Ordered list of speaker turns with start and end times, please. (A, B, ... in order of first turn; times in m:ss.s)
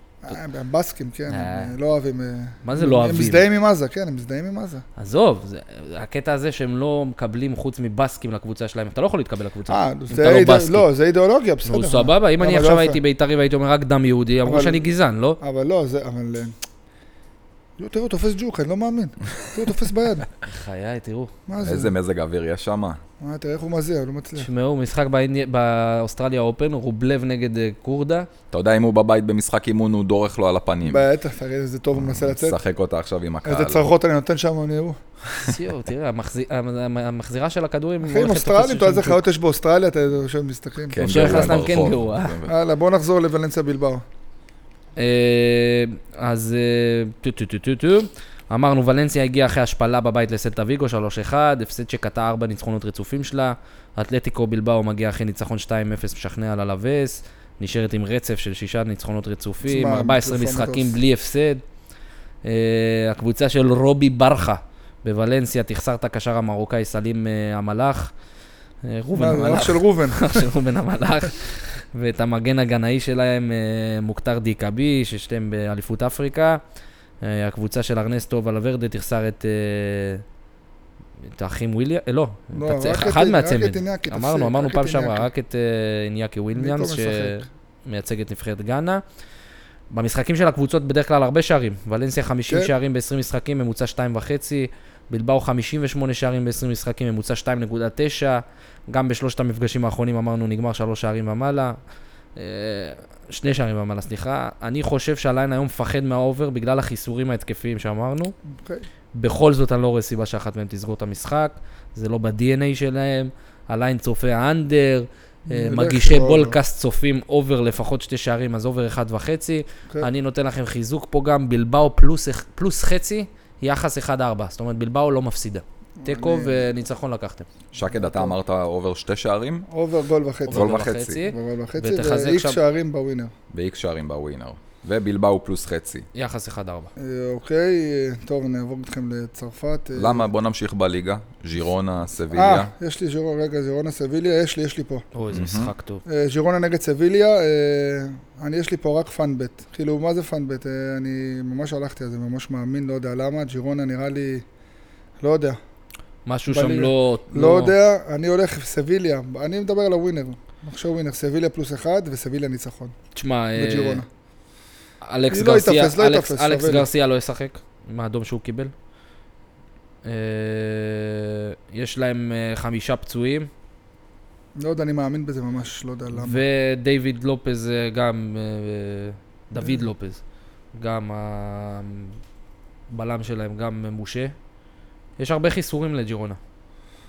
0:00.2-0:04.8 A
0:01.3-0:01.8 B
0:02.6-0:03.4 B
0:05.0-0:10.9 B
0:09.7-0:13.0 A
0:11.6-0:15.4 B
0:14.4-0:14.8 A
0:15.4-0:16.6 A
0:17.8-0:20.3 A
0:20.4-0:21.3 B
0:21.5-0:21.9 A
0:21.6-0:23.0 C
0:23.2-0:24.5 A
0:24.4-0:28.3 B
0:28.5-0:31.0 C
0:30.8-0:32.6 A
0:31.9-0:33.9 C
0:33.4-0:35.0 A
0:35.4-0:39.2 B
0:38.0-0:41.6 A
0:40.9-0:42.5 C
0:41.0-0:42.3 B
0:42.4-0:44.0 A
0:45.0-1:01.6 B
0:59.6-1:01.0 A
1:02.4-1:08.1 B
1:08.8-1:16.6 B
1:09.1-1:10.5 A
1:17.2-1:20.2 B
1:21.3-1:29.0 B
1:22.5-1:25.3 A
1:26.6-1:27.4 A
1:29.9-1:41.8 B
1:42.4-1:48.4 B
1:48.6-1:48.9 A
1:49.1-2:07.4 B
1:55.5-1:56.6 A
2:06.0-2:06.7 A
2:07.7-2:09.7 C
2:07.9-2:08.4 A
2:09.7-2:13.3 A
2:10.5-2:12.6 B
2:10.5-2:11.2 C
2:13.5-2:16.1 C
2:16.1-2:16.9 B
2:17.0-2:20.3 A
2:19.9-2:22.7 C
2:22.3-2:25.1 A
2:25.1-2:26.0 B
2:25.3-2:25.7 C
2:26.1-2:34.4 A
2:35.2-2:35.6 A
2:36.3-2:37.8 B
2:36.5-2:42.9 A
2:43.1-2:44.0 B
2:43.6-2:44.1 A
2:45.0-2:48.7 B
2:45.3-2:46.9 A
2:50.0-2:53.5 B
2:54.6-2:56.4 A
2:56.1-3:00.2 B
2:59.6-2:59.8 A
3:00.8-3:02.2 B
3:02.9-3:04.3 B
3:05.2-3:06.4 B